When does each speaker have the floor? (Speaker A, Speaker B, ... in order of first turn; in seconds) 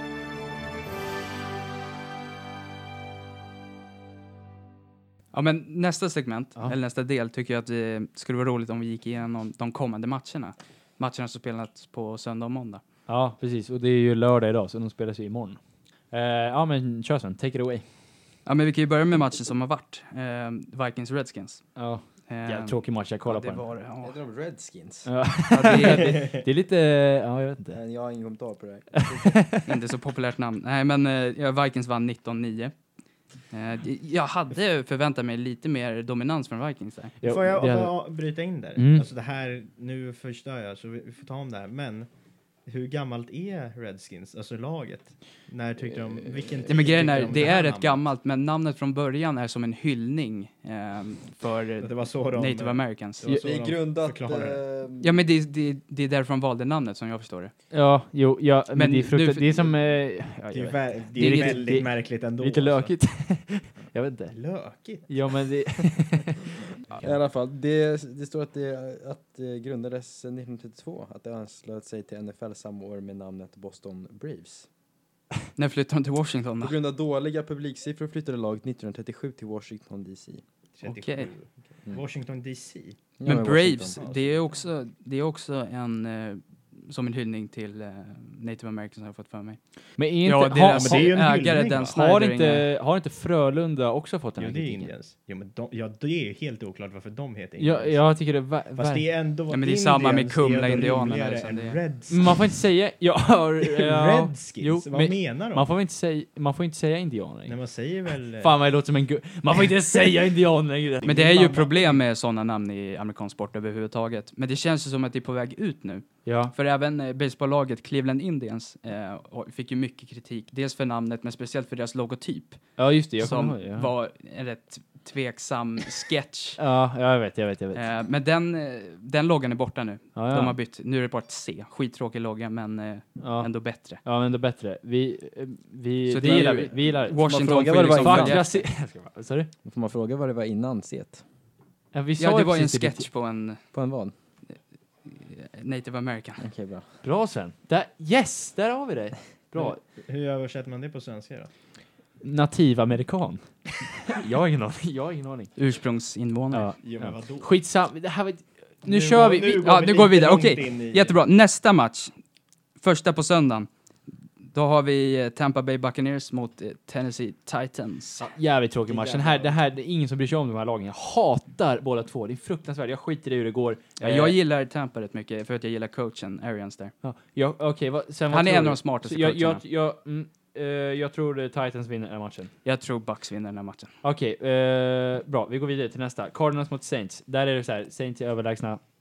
Speaker A: 5.3-12.8, 18.4-21.8, 22.3-24.1, 25.5-26.4, 29.6-32.7, 33.5-37.2, 46.6-53.2, 55.0-57.5, 58.8-59.7, 61.2-61.8, 75.6-76.8, 80.8-81.3, 83.2-89.6, 90.2-92.7, 99.5-101.8, 111.0-126.6, 127.7-134.0, 136.1-138.6, 142.2-143.7, 144.5-146.4, 155.6-156.7, 159.6-162.1, 162.8-163.7, 164.5-168.2, 174.0-176.9, 178.3-179.6, 182.7-183.9
Speaker B: 13.1-15.6, 16.1-17.8, 21.8-23.6, 25.1-27.8, 29.2-29.7, 37.2-38.0, 38.8-39.1, 57.7-64.3, 65.0-67.1, 90.0-91.2, 91.9-94.9, 97.6-99.0, 102.1-107.5, 108.2-111.2, 116.2-116.5, 122.8-123.9, 126.6-127.8, 130.2-130.6, 133.2-139.5, 141.9-143.1, 147.0-149.8, 152.2-155.5, 156.5-159.7, 168.2-174.4, 177.0-182.5, 184.0-188.8
Speaker C: 24.0-25.1, 27.7-29.5, 53.4-55.2, 67.0-74.7, 76.6-80.4, 83.2-84.0, 137.2-138.6, 139.6-141.2, 143.7-144.1, 146.4-146.9, 168.9-169.5
Speaker D: 26.0-26.4, 37.2-42.1, 42.7-48.0, 51.8-54.6, 60.5-62.9, 64.3-65.2, 80.8-83.0, 84.0-84.4, 90.7-91.9, 94.4-98.1, 98.8-102.5, 103.6-105.7, 107.5-108.5, 111.0-112.0, 149.6-151.5, 156.8-157.5, 158.8-161.2